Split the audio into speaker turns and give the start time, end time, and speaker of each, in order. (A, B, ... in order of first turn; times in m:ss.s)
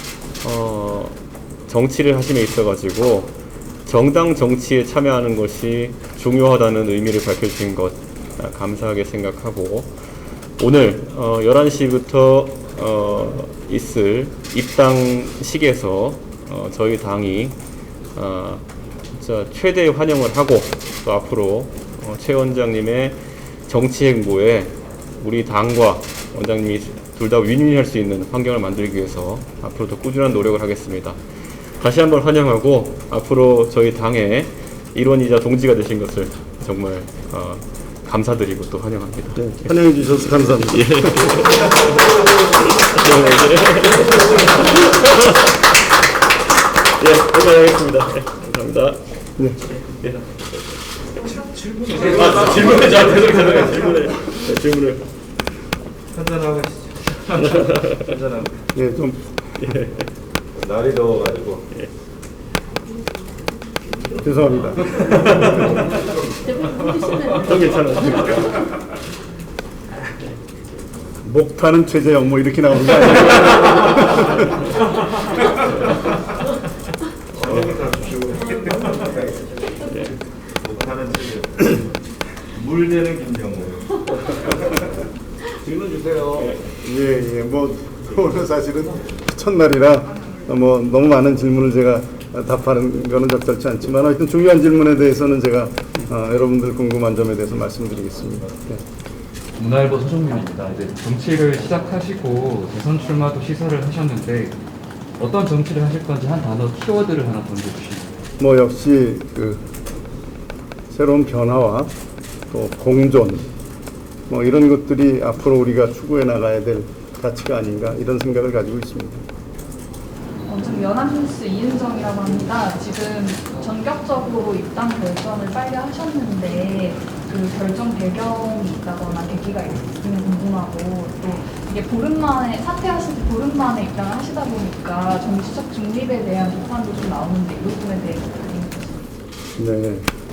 0:00.4-0:10.0 A
0:10.6-0:17.6 A
0:18.1-0:39.7 A
0:39.4-0:41.5 B
0:40.5-0:45.6 A
0:47.0-0:49.0 A
0:49.8-0:50.4 A
0:51.9-0:55.0 A
0:51.9-0:53.5 C
0:56.1-0:57.2 C
0:57.3-0:58.1 A
0:58.7-0:59.6 B
0:59.6-1:00.1 A
1:00.6-1:01.6 C
1:04.2-1:05.1 B
1:05.0-1:05.8 A
1:06.9-1:08.7 A
1:11.2-1:14.4 B
1:17.3-1:19.6 C
1:20.6-1:21.9 C
1:22.5-1:24.4 C
1:25.7-1:26.5 C
1:26.8-1:38.8 B
1:39.6-1:44.6 D
1:45.2-1:48.2 D
1:48.4-1:49.7 B
1:50.9-1:51.9 B
1:52.5-1:53.5 B
1:54.3-1:59.2 B
2:00.4-2:19.0 E
2:19.6-2:20.1 B